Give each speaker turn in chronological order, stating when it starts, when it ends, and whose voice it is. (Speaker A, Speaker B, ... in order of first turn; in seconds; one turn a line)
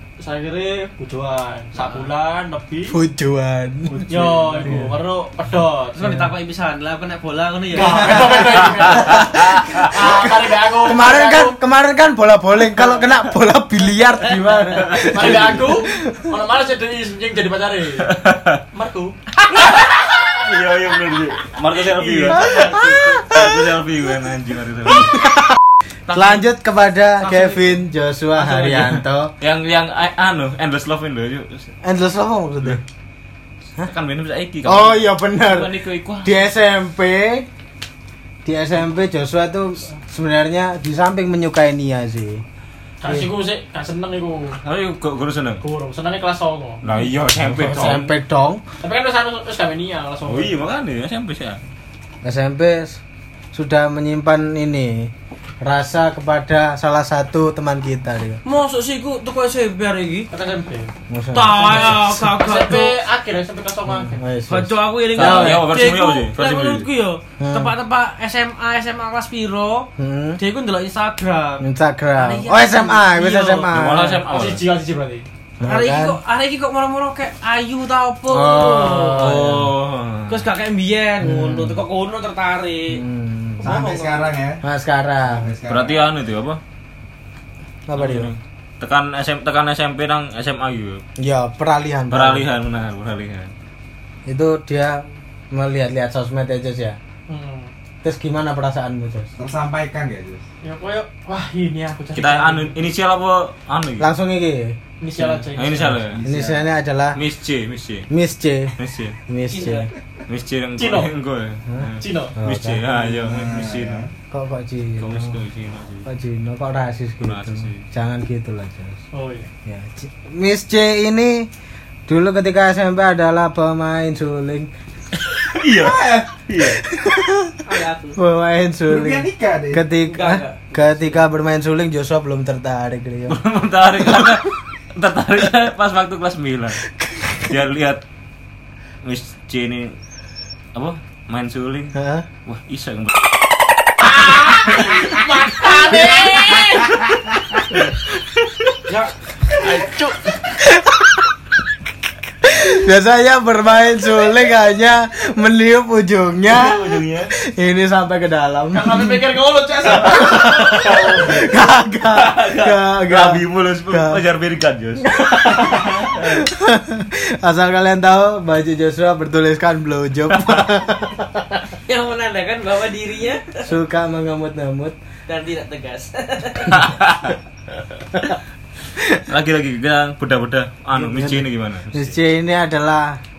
Speaker A: 0.2-3.0
Speaker B: 1.8-2.1
Speaker C: 2.9-4.9
Speaker D: 3.9-4.6
Speaker A: 4.1-6.0
Speaker B: 6.0-8.6
Speaker C: 6.0-6.3
Speaker A: 7.7-11.6
Speaker C: 7.8-16.3
Speaker E: 8.9-9.8
Speaker E: 14.7-15.6
Speaker A: 15.1-18.1
Speaker E: 18.1-18.6
Speaker A: 18.7-19.1
Speaker E: 20.3-22.7
Speaker A: 21.6-23.2
Speaker C: 22.5-23.5
Speaker E: 23.3-25.2
Speaker C: 25.0-25.4
Speaker C: 26.1-29.3
Speaker A: 26.1-26.4
Speaker A: 27.2-27.8
Speaker A: 28.4-28.9
Speaker E: 29.4-31.7
Speaker C: 31.8-32.8
Speaker E: 33.8-35.1
Speaker C: 34.6-37.5
Speaker B: 35.5-36.3
Speaker C: 38.4-42.4
Speaker A: 43.0-44.6
Speaker E: 44.6-45.6
Speaker A: 45.6-46.8
Speaker E: 46.8-48.1
Speaker C: 47.4-48.6
Speaker A: 48.8-50.5
Speaker E: 50.3-51.6
Speaker C: 52.2-53.0
Speaker C: 53.5-58.4
Speaker B: 58.4-60.3
Speaker A: 60.3-60.9
Speaker C: 61.1-62.3
Speaker B: 61.3-63.0
Speaker A: 61.5-64.2
Speaker C: 63.9-65.7
Speaker B: 64.5-71.6
Speaker E: 65.1-66.9
Speaker C: 67.4-67.7
Speaker C: 70.0-70.4
Speaker C: 71.6-74.2
Speaker B: 72.2-73.7
Speaker E: 73.7-74.7
Speaker A: 74.3-75.2
Speaker C: 75.6-76.2
Speaker B: 75.6-79.3
Speaker C: 78.3-79.7
Speaker E: 79.2-80.5
Speaker B: 80.3-83.0
Speaker C: 81.2-81.8
Speaker C: 82.9-83.7
Speaker D: 83.6-84.6
Speaker B: 83.6-84.4
Speaker C: 84.6-85.5
Speaker D: 85.2-86.1
Speaker E: 85.7-86.6
Speaker C: 87.9-88.3
Speaker E: 87.9-91.0
Speaker C: 91.2-92.4
Speaker E: 92.1-93.5
Speaker C: 94.3-97.0
Speaker A: 97.3-97.7
Speaker C: 98.0-99.3
Speaker D: 99.4-100.4
Speaker A: 100.6-102.7
Speaker E: 102.1-104.1
Speaker C: 104.0-104.7
Speaker A: 105.0-106.0
Speaker E: 105.2-106.2
Speaker D: 106.0-106.7
Speaker C: 106.2-107.2
Speaker E: 107.1-108.1
Speaker C: 108.1-108.7
Speaker E: 108.8-109.2
Speaker C: 109.3-109.9
Speaker B: 109.5-109.9
Speaker E: 110.3-114.0
Speaker A: 110.8-111.1
Speaker A: 112.0-112.3
Speaker C: 112.4-113.0
Speaker D: 113.1-114.1
Speaker C: 114.3-115.3
Speaker E: 115.0-116.1
Speaker C: 116.0-119.0
Speaker E: 117.2-117.8
Speaker A: 119.1-119.5
Speaker C: 119.7-121.5
Speaker C: 122.1-124.7
Speaker E: 125.5-126.8
Speaker D: 125.7-126.3
Speaker C: 126.7-133.4
Speaker B: 127.6-128.2
Speaker D: 128.9-129.9
Speaker B: 130.0-131.2
Speaker E: 133.3-136.8
Speaker C: 137.0-137.5
Speaker E: 137.5-138.0
Speaker E: 139.0-139.9
Speaker E: 140.7-141.9
Speaker C: 141.9-142.2
Speaker E: 142.4-143.1
Speaker A: 144.0-146.9
Speaker C: 145.9-146.8
Speaker A: 149.6-150.2
Speaker C: 150.5-151.3
Speaker C: 152.4-159.2
Speaker E: 156.5-157.3
Speaker A: 158.7-161.0
Speaker C: 159.8-164.2
Speaker E: 160.8-161.5
Speaker B: 162.2-162.7
Speaker E: 163.1-165.1
Speaker C: 165.0-171.6
Speaker B: 171.9-173.7
Speaker C: 173.6-174.9
Speaker B: 175.3-176.9
Speaker E: 176.7-177.3
Speaker E: 179.2-182.1
Speaker B: 180.9-181.2
Speaker C: 181.1-183.2